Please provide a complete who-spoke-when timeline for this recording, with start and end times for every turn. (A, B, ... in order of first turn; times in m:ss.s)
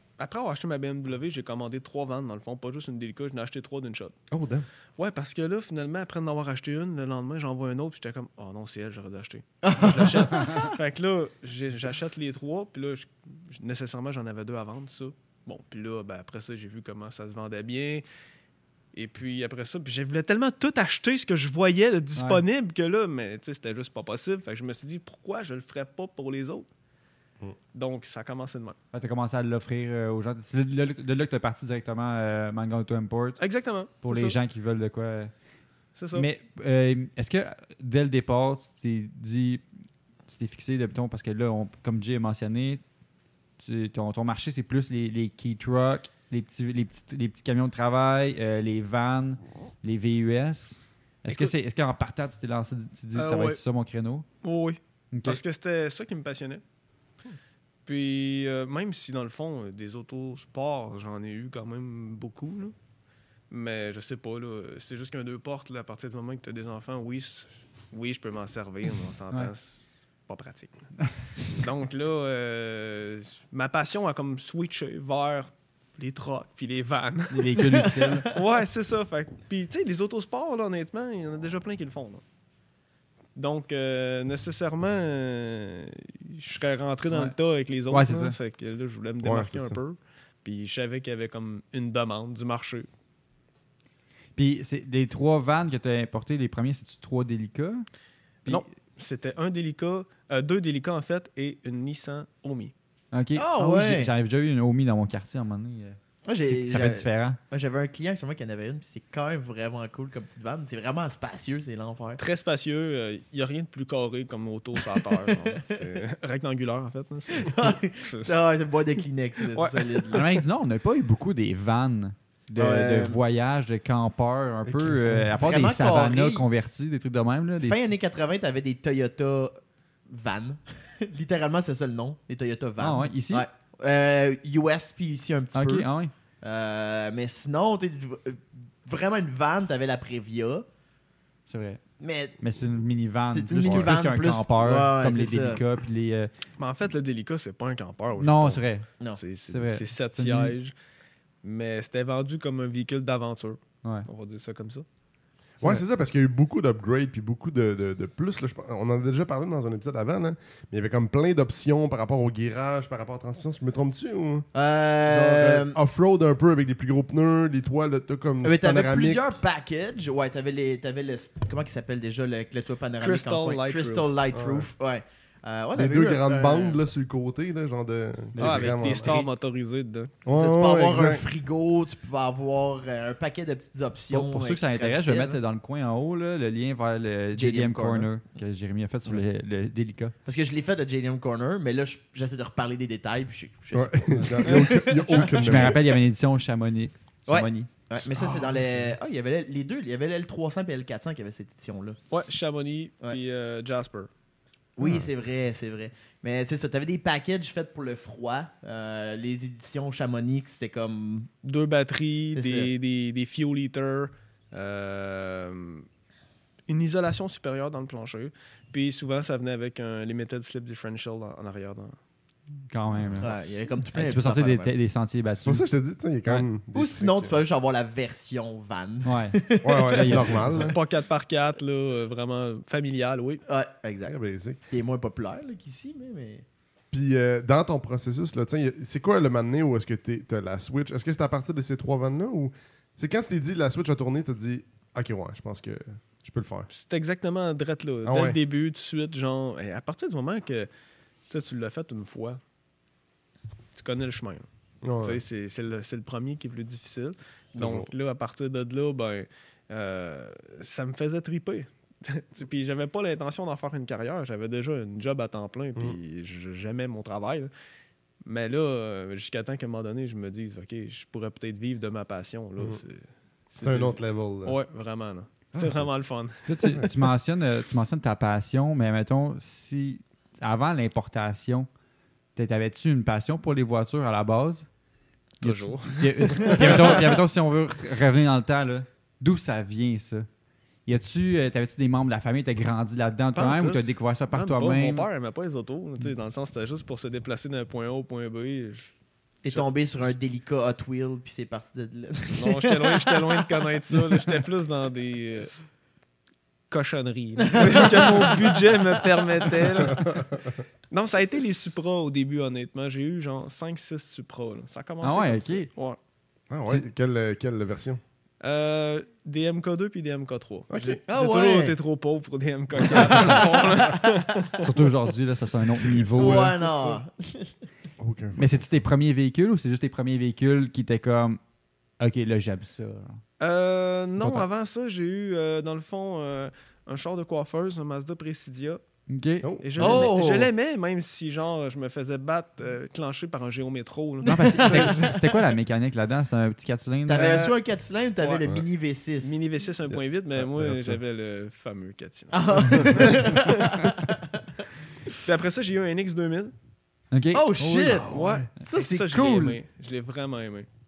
0:00.2-0:04.2 A
0:04.3-0:04.7 B
0:05.0-0:18.0 A
0:09.6-0:10.7 C
0:18.9-0:26.7 A
0:22.2-0:22.4 D
0:27.7-0:28.8 A
0:28.9-0:33.4 D
0:33.4-0:34.4 A
0:34.0-0:35.3 D
0:36.0-0:36.3 A
0:36.1-0:39.6 D
0:40.3-0:42.8 D
0:43.6-0:54.3 D
0:51.3-0:51.5 A
0:53.1-0:53.6 A
0:54.4-0:56.6 A
0:55.1-0:55.4 D
0:57.9-1:02.7 A
1:03.5-1:10.9 A
1:11.4-1:17.7 A
1:17.3-1:18.3 D
1:17.6-1:18.4 C
1:18.3-1:22.2 A
1:23.4-1:32.9 A
1:27.1-1:27.4 D
1:27.9-1:28.4 D
1:29.2-1:29.8 B
1:34.4-1:37.9 D
1:38.4-1:42.7 A
1:43.1-1:47.4 D
1:43.4-1:44.1 C
1:46.3-1:52.2 C
1:52.2-1:58.3 A
1:54.9-1:55.8 C
1:57.3-2:00.2 C
1:59.5-2:00.2 A
2:00.1-2:07.8 D
2:02.6-2:03.2 C
2:04.7-2:05.3 B
2:05.4-2:06.5 C
2:07.6-2:09.6 C
2:10.1-2:15.9 C
2:12.8-2:13.5 D
2:15.5-2:16.1 D
2:16.4-2:20.6 C
2:21.5-2:21.8 D
2:22.0-2:22.4 C
2:22.4-2:26.3 D
2:23.3-2:25.6 C
2:26.6-2:30.8 A
2:28.2-2:28.9 D
2:29.5-2:30.5 D
2:31.4-2:34.8 A
2:35.6-2:44.5 B
2:44.5-2:45.8 C
2:45.1-2:49.3 B
2:48.4-2:56.8 C
2:53.0-2:54.1 A
2:54.3-2:54.7 B
2:55.8-2:59.1 B
2:58.4-2:59.3 D
2:58.4-3:00.2 A
3:00.2-3:01.2 B
3:00.3-3:05.4 C
3:04.1-3:10.1 D
3:07.4-3:08.1 C
3:10.3-3:15.7 C
3:13.7-3:15.8 B
3:14.8-3:17.7 D
3:17.3-3:22.0 C
3:22.1-3:24.1 A
3:24.8-3:31.3 C
3:24.8-3:25.1 B
3:31.4-3:35.9 A
3:32.4-3:32.7 C
3:36.7-3:42.0 A
3:42.7-3:43.3 D
3:43.2-3:44.7 C
3:43.9-3:45.6 D
3:45.4-3:47.4 B
3:46.7-3:50.4 C
3:49.0-3:50.8 D
3:49.6-3:50.8 B
3:50.7-3:53.4 A
3:53.5-3:54.2 C
3:54.0-3:54.6 B
3:54.7-3:56.4 C
3:56.9-4:06.7 B
4:06.7-4:10.7 A
4:08.0-4:08.4 B
4:11.3-4:12.4 A
4:13.7-4:14.5 A
4:14.8-4:15.2 B
4:15.0-4:27.5 A
4:17.6-4:17.9 B
4:28.2-4:36.7 A
4:33.6-4:34.6 B
4:35.5-4:35.9 B
4:36.5-4:41.7 D
4:42.4-4:44.7 D
4:45.4-4:47.1 A
4:45.4-4:50.3 D
4:46.2-4:47.0 C
4:50.9-4:55.1 D
4:53.4-4:58.9 A
4:59.4-5:04.2 C
5:02.3-5:05.5 A
5:06.7-5:10.2 A
5:07.4-5:09.7 C
5:09.9-5:10.2 B
5:10.9-5:16.0 A
5:15.0-5:15.7 D
5:16.5-5:18.0 B
5:18.4-5:24.7 A
5:20.7-5:21.0 B
5:21.1-5:21.8 C
5:22.9-5:24.5 C
5:22.9-5:23.4 D
5:24.6-5:26.5 D
5:26.2-5:27.0 A
5:26.2-5:27.5 C
5:28.0-5:28.8 B
5:28.4-5:31.4 D
5:32.0-5:33.2 D
5:33.4-5:38.8 A
5:34.2-5:34.5 D
5:39.1-5:39.5 D
5:39.4-5:40.1 B
5:39.6-5:45.2 A
5:39.8-5:40.5 C
5:44.2-5:45.2 C
5:44.2-5:47.5 D
5:47.1-5:49.4 C
5:47.1-5:47.6 A
5:49.2-5:53.9 A
5:49.9-5:51.0 B
5:52.3-5:54.4 C
5:55.2-5:56.5 A
5:57.1-5:58.1 D
5:57.3-5:59.6 C
5:58.1-6:00.7 A
5:58.1-5:58.5 B